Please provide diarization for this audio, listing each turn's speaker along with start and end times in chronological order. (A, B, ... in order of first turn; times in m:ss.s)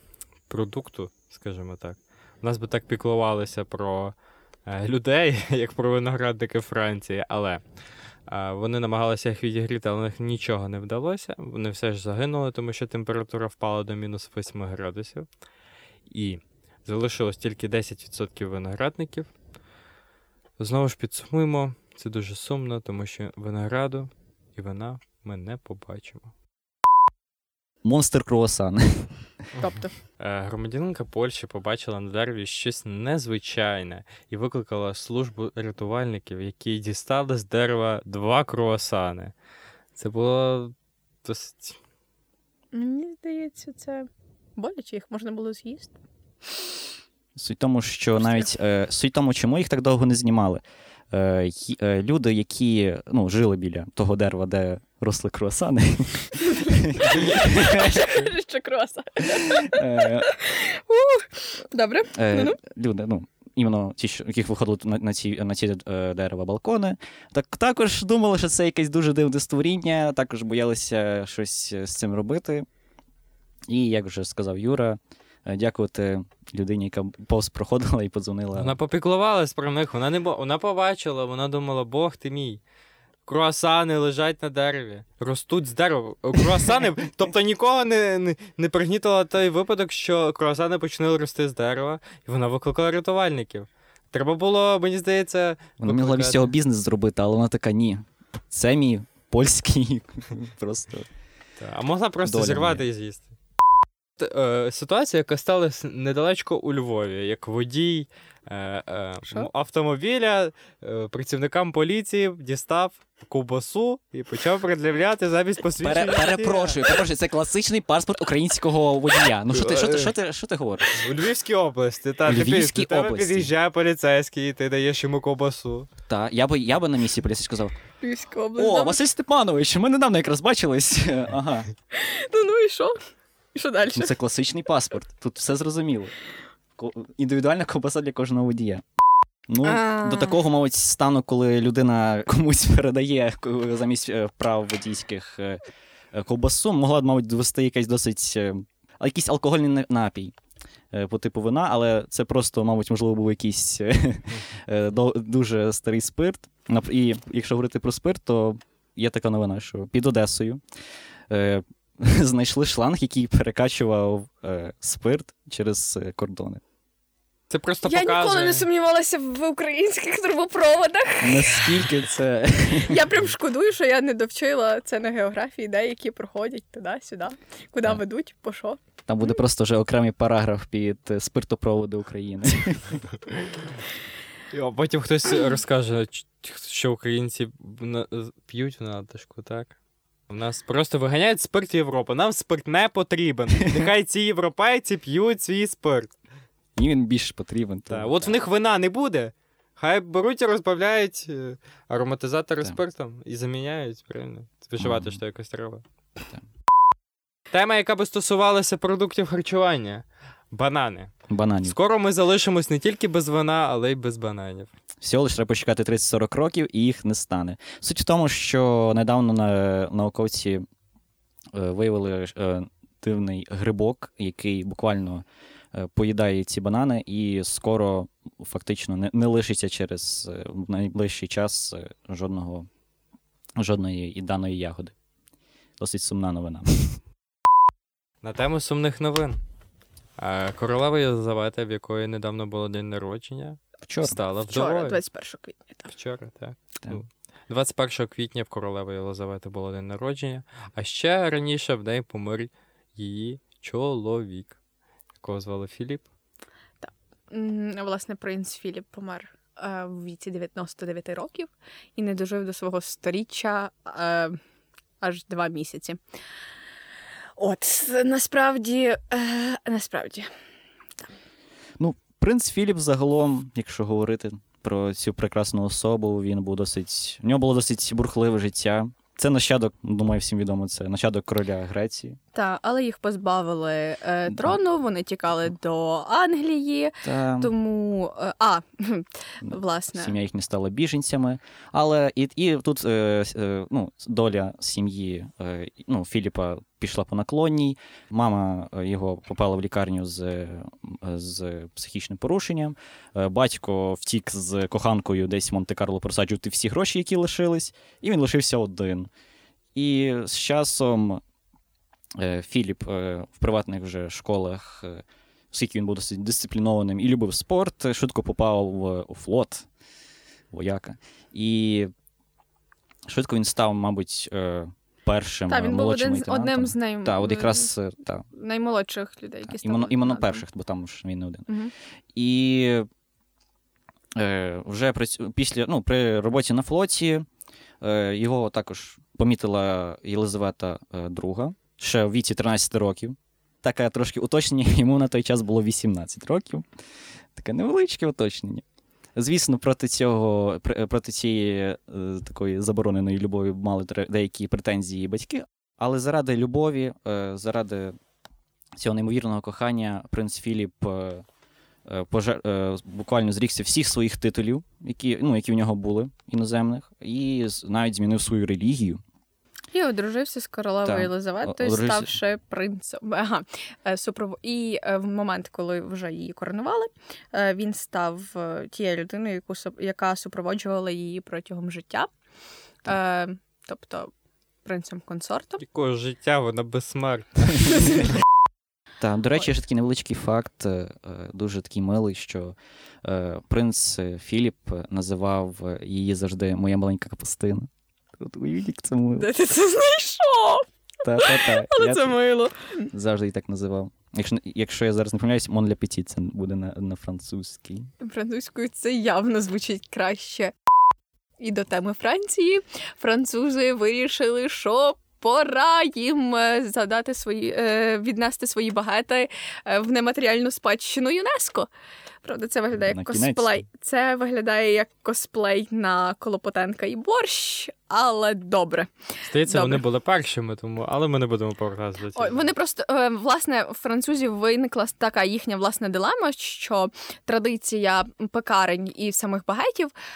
0:00.5-0:04.2 A
0:04.7-0:07.6 A
0:08.3-0:15.3 A
0:16.1-0:19.3 A
0:20.6-0:26.3 A
0:27.8-0:29.1 B
0:29.6-0:39.3 A
0:29.6-0:29.9 C
0:40.0-0:41.8 A
0:42.7-0:46.0 C
0:46.5-0:46.7 C
0:47.4-0:58.2 B
0:56.7-1:02.6 C
0:59.2-1:00.3 B
1:02.2-1:12.7 B
1:13.7-1:18.8 B
1:18.6-1:22.6 A
1:23.3-1:36.5 A
1:35.8-1:41.1 B
1:41.6-1:43.3 A
1:42.2-1:42.8 B
1:44.2-1:57.0 A
1:55.8-2:01.0 B
1:59.5-2:00.1 A
2:00.9-2:05.9 A
2:02.3-2:03.5 B
2:06.1-2:07.7 B
2:08.0-2:09.0 C
2:08.6-2:11.7 B
2:11.9-2:13.0 C
2:13.5-2:14.1 C
2:13.9-2:16.1 B
2:16.8-2:18.8 B
2:19.5-2:30.3 B
2:19.6-2:20.4 C
2:30.9-2:40.6 B
2:41.3-2:46.6 B
2:47.5-2:48.7 A
2:47.8-2:51.9 C
2:51.2-2:53.0 B
2:52.7-2:59.3 C
2:59.1-3:03.1 B
3:04.5-3:09.8 A
3:10.3-3:16.1 A
3:16.8-3:18.4 B
3:17.9-3:25.8 A
3:24.8-3:25.2 B
3:27.5-3:34.7 A
3:31.3-3:31.8 B
3:35.0-3:40.6 B
3:41.5-3:52.7 B
3:53.6-3:55.0 B
3:55.8-3:57.0 B
3:58.2-3:59.4 A
4:00.2-4:05.0 A
4:03.9-4:04.2 B
4:04.5-4:05.9 C
4:05.9-4:14.6 A
4:15.2-4:16.0 A
4:16.8-4:24.4 C
4:25.0-4:26.0 C
4:27.4-4:30.3 C
4:31.8-4:42.2 B
4:42.3-4:50.2 C
4:44.3-4:44.6 B
4:47.0-4:47.5 B
4:49.4-5:09.1 B
5:09.8-5:11.2 B
5:12.2-5:19.7 B
5:20.5-5:21.9 B
5:23.1-5:28.3 B
5:25.5-5:27.7 C
5:28.3-5:30.4 C
5:29.5-5:31.5 B
5:32.1-5:32.9 B
5:34.2-5:37.3 B
5:37.8-5:46.7 B
5:47.4-5:48.6 B
5:49.2-5:58.0 B
5:58.8-6:01.2 B
6:01.9-6:09.0 B
6:09.7-6:22.1 C
6:10.8-6:12.2 B
6:22.8-6:24.1 C
6:24.6-6:25.6 C
6:25.6-6:28.1 A
6:29.0-6:39.3 B
6:39.2-6:42.9 C
6:41.0-6:42.2 B
6:42.9-6:47.9 B
6:48.0-6:50.6 C
6:51.4-7:01.7 C
7:02.2-7:08.9 C
7:02.8-7:03.7 B
7:09.3-7:12.4 A
7:09.5-7:09.8 C
7:12.2-7:19.9 C